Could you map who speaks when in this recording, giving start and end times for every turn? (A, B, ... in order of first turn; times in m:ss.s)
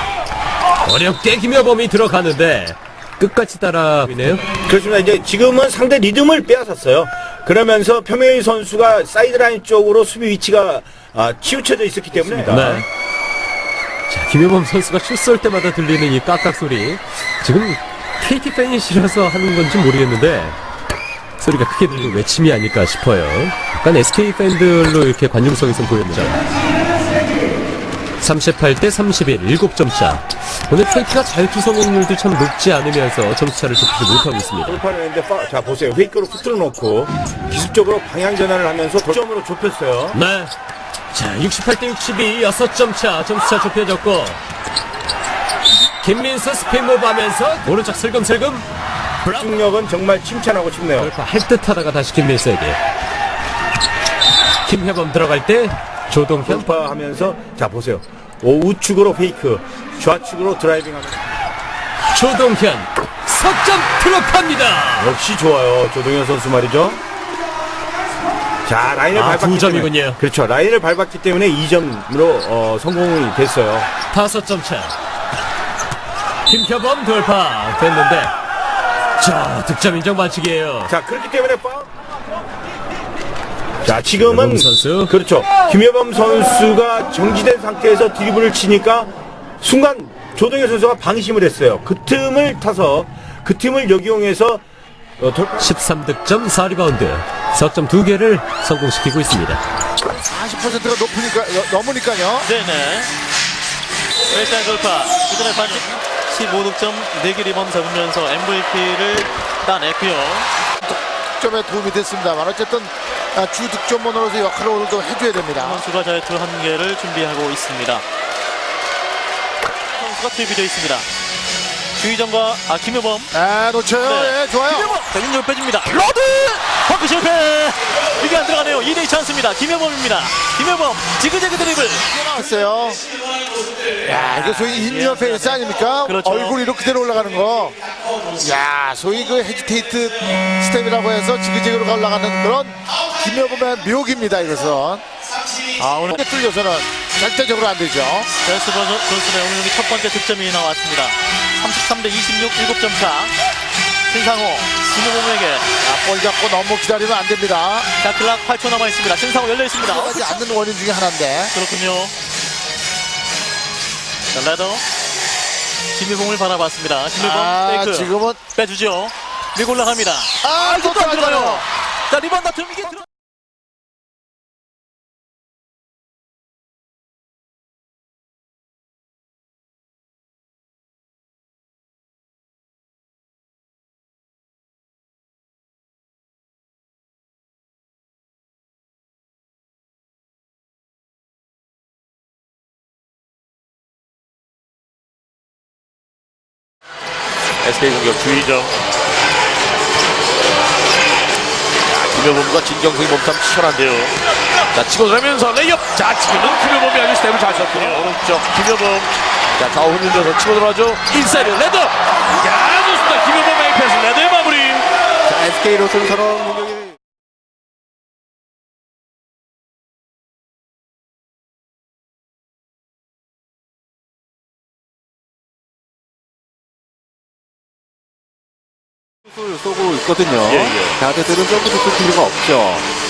0:00.8-0:04.4 A
0:04.6-0:12.8 B
0:12.4-0:12.8 A
0:14.1-0:20.6 A
0:21.4-0:26.4 A
0:28.2-0:34.8 A
0:34.6-0:40.2 B
0:40.1-0:40.5 A
0:41.1-0:44.4 A
0:46.0-0:48.6 A
0:49.2-0:49.5 A
0:49.4-0:51.1 B
0:51.0-0:52.8 A
0:54.6-0:56.8 A
0:56.4-1:01.2 B
1:02.1-1:05.1 A
1:05.0-1:07.0 B
1:08.6-1:13.9 B
1:09.1-1:10.2 A
1:14.1-1:14.9 A
1:16.5-1:18.3 A
1:19.2-1:20.9 A
1:20.9-1:21.9 B
1:23.8-1:29.1 B
1:24.2-1:25.1 A
1:29.6-1:34.6 B
1:35.2-1:35.7 B
1:35.6-1:39.6 A
1:40.2-1:42.5 C
1:42.4-1:43.1 D
1:44.3-1:50.5 D
1:50.8-1:55.8 C
1:55.5-1:58.0 D
1:59.9-2:01.0 D
2:02.0-2:03.3 D
2:03.3-2:05.0 C
2:04.0-2:12.5 D
2:12.1-2:13.0 C
2:14.0-2:17.8 C
2:14.1-2:16.6 D
2:18.4-2:25.0 C
2:25.8-2:26.2 D
2:26.1-2:28.3 C
2:28.4-2:33.3 D
2:34.1-2:35.6 D
2:35.8-2:37.9 C
2:38.0-2:40.3 D
2:39.8-2:41.5 C
2:41.5-2:42.1 D
2:44.3-2:44.8 D
2:46.0-2:53.0 D
2:47.2-2:48.4 C
2:50.4-2:51.6 C
3:17.6-3:18.7 E
3:21.9-3:24.2 E
3:24.7-3:34.8 E
3:35.7-3:36.6 F
3:49.4-3:52.8 F
3:50.4-3:51.0 E